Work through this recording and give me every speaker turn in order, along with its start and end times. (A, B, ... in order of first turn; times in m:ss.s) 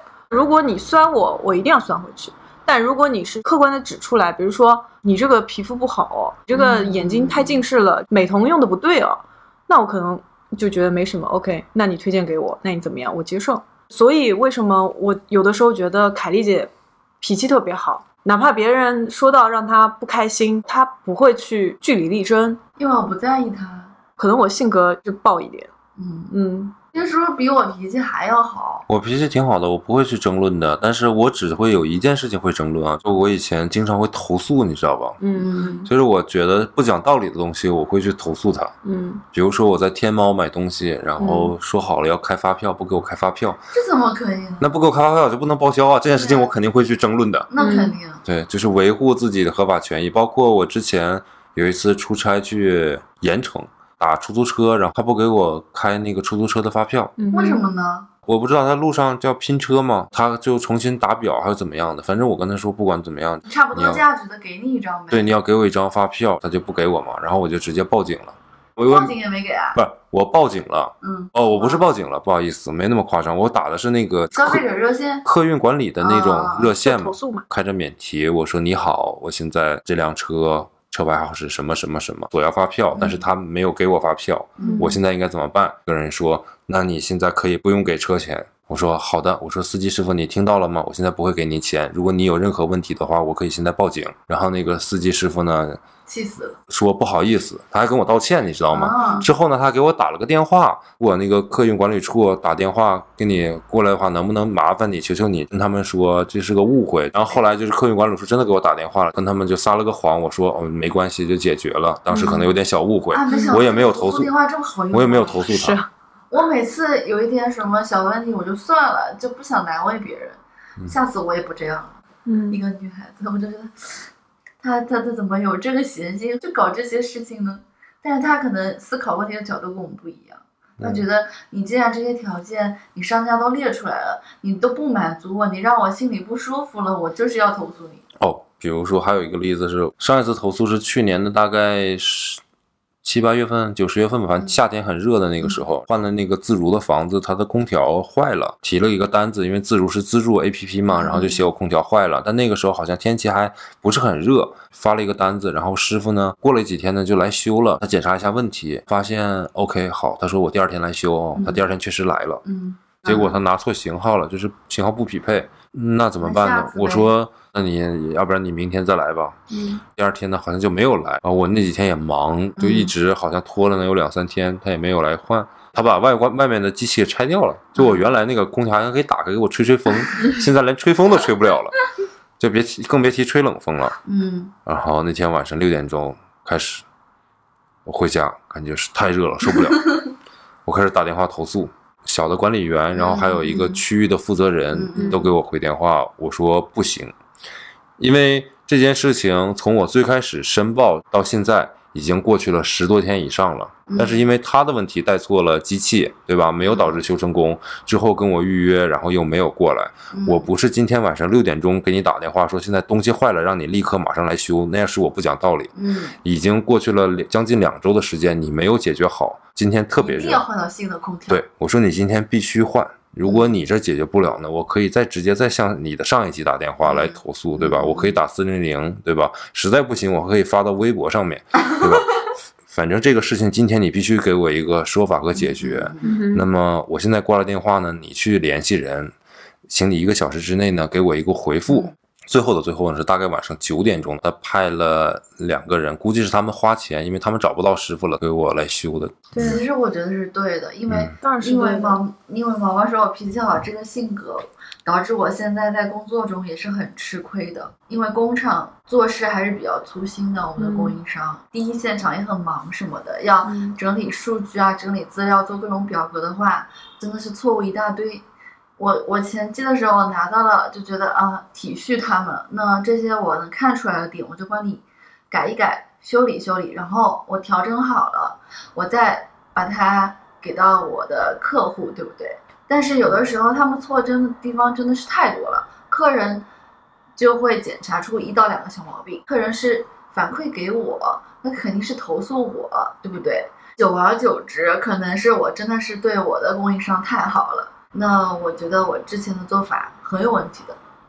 0:00.3-0:22.6 A
0:06.5-0:07.6 B
0:22.8-0:23.9 B
0:24.2-0:25.7 A
0:26.0-0:26.3 B
0:26.3-0:26.7 A
0:26.9-0:28.9 B
0:28.9-0:35.2 C
0:35.2-0:35.9 A
0:35.4-0:35.7 B
0:35.8-0:38.7 C
0:38.8-0:39.2 A
0:39.3-0:43.7 C
0:41.2-0:41.5 A
0:43.7-0:44.7 B
0:44.6-0:47.5 C
0:46.1-0:46.5 B
0:47.5-0:48.2 B
0:47.6-0:48.0 A
0:48.2-0:57.1 C
0:57.2-0:57.7 A
0:57.3-0:58.1 B
0:58.2-1:04.0 C
1:03.5-1:05.3 B
1:05.1-1:09.1 C
1:08.9-1:09.8 B
1:09.7-1:14.6 C
1:11.0-1:11.8 B
1:14.3-1:15.2 B
1:15.2-1:35.8 C
1:16.0-1:16.7 B
1:16.8-1:17.4 A
1:22.9-1:23.2 B
1:24.6-1:24.9 B
1:24.6-1:25.0 A
1:36.1-1:36.6 B
1:36.7-1:54.3 C
1:38.7-1:39.3 B
1:52.1-1:52.4 A
1:52.2-1:52.4 B
1:53.1-1:55.4 B
1:53.3-1:53.5 A
1:54.9-1:55.8 C
1:55.5-1:55.9 A
1:56.3-2:02.0 B
2:02.2-2:02.6 A
2:02.5-2:04.1 B
2:04.6-2:18.0 B
2:10.8-2:11.0 C
2:18.2-2:22.4 C
2:23.0-2:42.4 C
2:30.9-2:31.4 B
2:41.3-2:41.6 B
2:42.4-2:43.4 B
2:43.0-2:49.4 C
2:46.2-2:47.1 B
2:49.5-2:49.8 B
2:49.9-3:01.8 C
2:52.6-2:52.9 B
2:57.8-2:58.0 B
3:02.4-3:04.0 C
3:04.0-3:04.5 B
3:04.6-3:06.8 C
3:07.8-3:10.0 C
3:10.6-3:17.1 C
3:12.9-3:13.8 B
3:14.7-3:15.3 B
3:18.0-3:35.7 C
3:23.9-3:24.2 B
3:26.6-3:27.0 B
3:30.1-3:30.5 B
3:35.7-3:36.2 B
3:36.2-3:40.4 C
3:40.0-3:41.4 B
3:41.3-3:59.1 C
3:46.8-3:48.2 B
3:55.4-3:56.1 B
3:56.0-3:56.4 A
3:59.7-4:09.6 C
4:01.7-4:01.9 B
4:09.3-4:09.6 A
4:09.4-4:28.2 B
4:10.9-4:11.1 C
4:11.2-4:12.0 A
4:20.6-4:21.0 A
4:23.4-4:23.8 A
4:28.8-4:46.4 B
4:47.2-5:00.8 B